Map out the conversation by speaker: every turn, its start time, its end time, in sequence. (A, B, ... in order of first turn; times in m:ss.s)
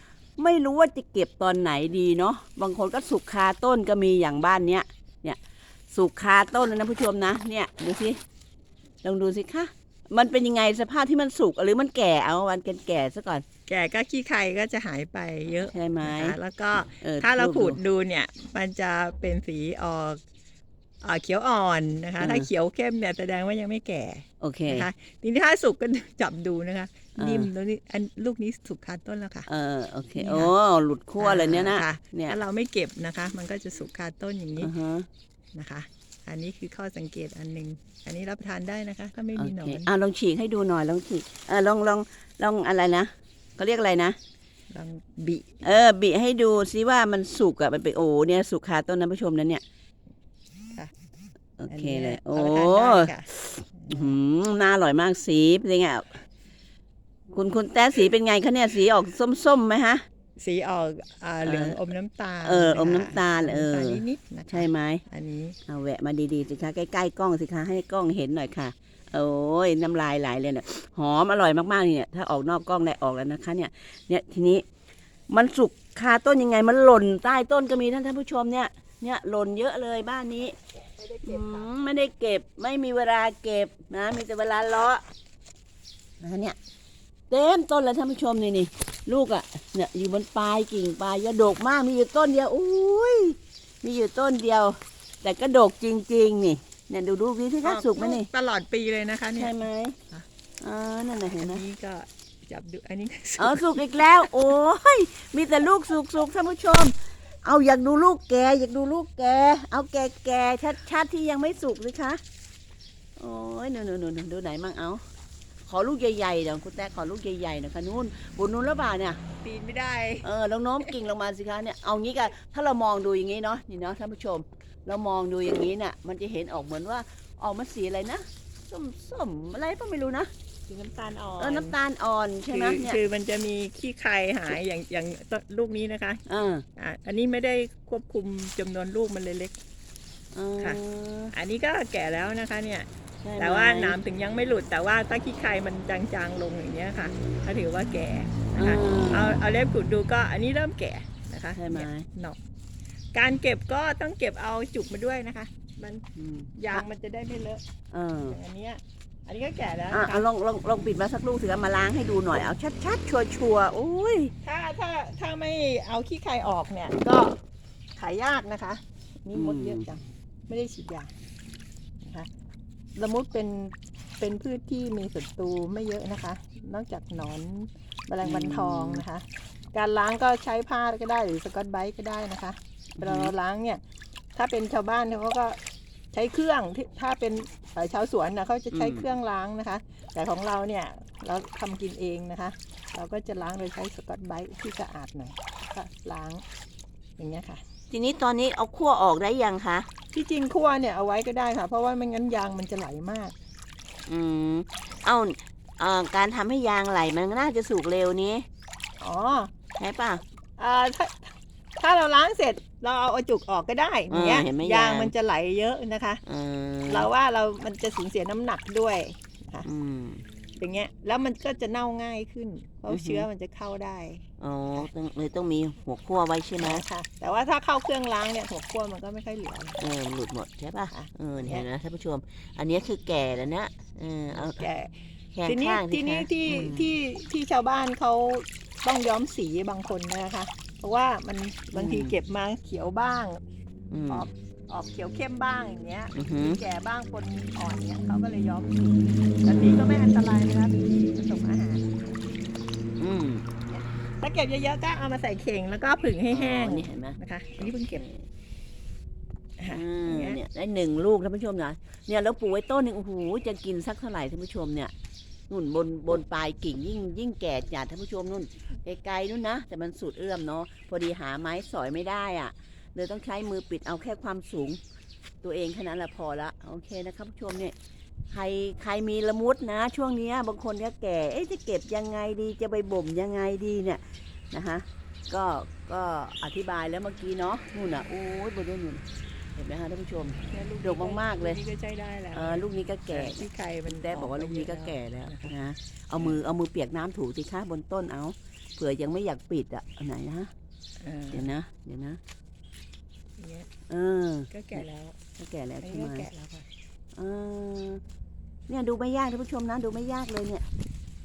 0:00.4-0:05.4 A
0:05.9-0:08.2 A
0:09.0-0:13.4 A
0:13.7-0:20.2 B
0:15.6-0:16.4 A
0:17.0-0:17.8 A
0:21.0-0:29.5 B
0:22.2-0:22.5 A
0:24.4-0:24.9 A
0:27.2-0:27.5 A
0:29.5-0:32.4 A
0:30.2-0:30.5 B
0:31.2-0:34.7 B
0:34.6-0:35.1 A
0:35.5-0:39.9 B
0:39.4-0:44.2 A
0:44.7-0:45.6 B
0:45.6-0:49.6 A
0:51.6-0:56.1 A
0:51.7-0:54.2 B
0:57.3-1:00.0 A
1:00.4-1:05.6 B
1:01.4-1:01.8 A
1:02.4-1:05.0 A
1:05.7-1:14.6 A
1:15.3-1:20.6 A
1:21.0-1:21.7 B
1:21.2-1:25.0 A
1:26.2-1:26.6 A
1:27.3-1:38.3 A
1:37.6-1:39.6 B
1:39.4-1:40.0 A
1:40.6-1:41.6 A
1:41.4-1:44.3 B
1:43.4-1:52.2 A
1:53.2-1:55.0 A
1:55.7-1:59.2 A
1:59.4-2:00.2 B
2:00.2-2:10.3 A
2:10.7-2:11.8 B
2:11.4-2:13.0 A
2:12.5-2:16.2 B
2:16.3-2:16.6 A
2:16.8-2:19.6 B
2:20.3-2:21.3 A
2:21.3-2:32.4 B
2:23.2-2:24.0 A
2:28.6-2:29.4 A
2:31.6-2:32.0 A
2:33.1-2:36.0 B
2:36.2-2:36.8 A
2:36.6-2:37.6 B
2:37.9-2:38.4 A
2:38.3-2:40.2 B
2:39.9-2:44.3 A
2:44.4-2:47.4 B
2:48.0-2:51.1 B
2:49.3-2:49.9 A
2:52.0-2:52.3 B
2:53.0-3:03.8 B
2:58.2-2:59.0 A
3:03.0-3:03.3 A
3:04.3-3:05.6 B
3:06.1-3:16.4 B
3:08.7-3:09.1 A
3:17.2-3:17.6 B
3:17.9-3:19.9 A
3:20.1-3:23.3 B
3:24.1-3:28.5 A
3:29.0-3:29.5 B
3:29.8-3:30.2 A
3:30.6-3:36.2 B
3:34.1-3:35.1 A
3:36.2-3:37.1 A
3:36.9-3:39.7 B
3:39.6-3:40.2 A
3:40.6-3:44.9 B
3:42.9-3:43.2 A
3:44.4-3:46.8 A
3:46.6-3:49.8 B
3:49.8-3:54.7 A
3:50.9-3:51.6 B
3:54.3-4:03.4 B
3:55.3-3:56.9 A
4:01.7-4:02.1 A
4:03.9-4:04.2 A
4:04.1-4:12.2 B
4:06.1-4:06.6 A
4:13.0-4:13.4 A
4:13.7-4:18.0 B
4:16.3-4:18.2 A
4:19.6-4:20.4 B
4:19.7-4:24.9 A
4:25.5-4:34.8 A
4:35.4-4:37.7 A
4:38.3-4:49.0 A
4:49.5-4:51.6 A
4:50.5-4:55.5 B
4:52.3-5:00.5 A
4:56.2-4:56.4 B
5:01.0-5:01.5 B
5:01.3-5:02.2 A
5:03.4-5:03.7 B
5:03.9-5:04.8 A
5:04.5-5:05.2 B
5:05.4-5:06.3 A
5:05.8-5:06.7 B
5:07.1-5:08.0 A
5:08.7-5:10.6 A